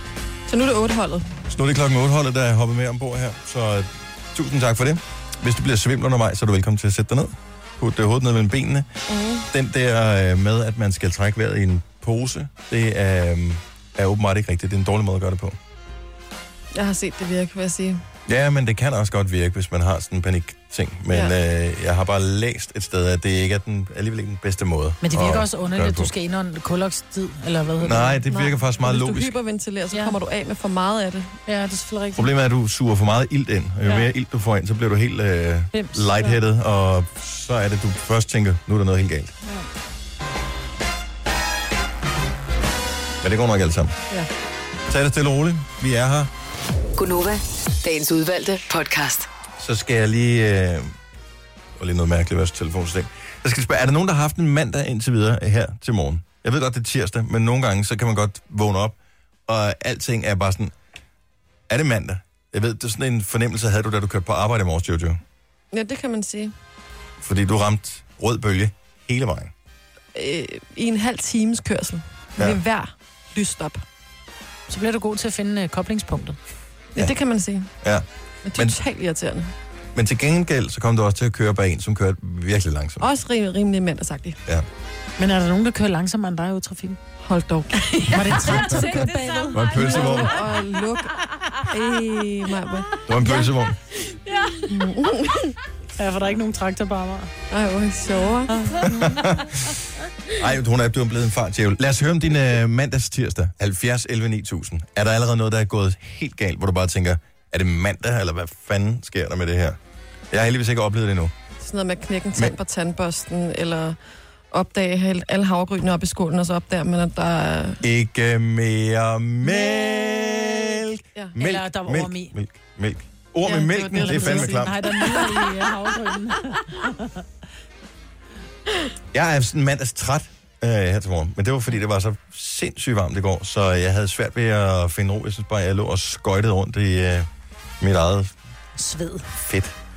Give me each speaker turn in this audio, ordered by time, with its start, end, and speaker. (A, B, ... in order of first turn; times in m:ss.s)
0:00.5-0:01.3 A
0:01.5-0:08.9 B
0:09.1-0:09.5 A
0:09.5-0:15.6 B
0:16.7-0:18.0 A
0:18.3-0:26.1 B
0:25.0-0:28.2 C
0:27.8-0:29.4 B
0:28.3-0:31.4 A
0:31.5-0:32.3 C
0:32.2-0:39.4 B
0:35.7-0:36.4 C
0:43.2-0:44.0 B
0:44.9-0:46.3 B
0:47.0-0:49.3 D
0:49.6-0:50.9 B
0:51.8-0:59.0 B
0:59.5-1:00.7 B
1:01.7-1:05.2 B
1:05.7-1:06.5 A
1:07.2-1:09.5 B
1:10.2-1:13.8 A
1:14.7-1:16.4 C
1:17.0-1:17.7 A
1:17.8-1:18.8 B
1:18.4-1:19.5 A
1:20.0-1:23.1 B
1:23.0-1:24.4 A
1:25.2-1:27.0 C
1:27.2-1:32.9 A
1:28.1-1:30.4 C
1:29.5-1:30.4 B
1:33.1-1:33.8 B
1:34.7-1:35.6 A
1:36.0-1:37.3 C
1:37.5-1:38.9 A
1:38.5-1:38.9 C
1:38.8-1:39.8 B
1:40.3-1:49.8 B
1:50.3-1:51.3 B
1:51.6-1:54.0 A
1:54.5-1:57.8 A
1:57.8-2:04.8 B
1:59.5-2:00.6 A
2:01.4-2:02.3 C
2:03.5-2:05.5 A
2:03.5-2:07.2 C
2:09.1-2:17.3 B
2:17.8-2:18.4 B
2:18.8-2:19.3 C
2:19.4-2:19.8 B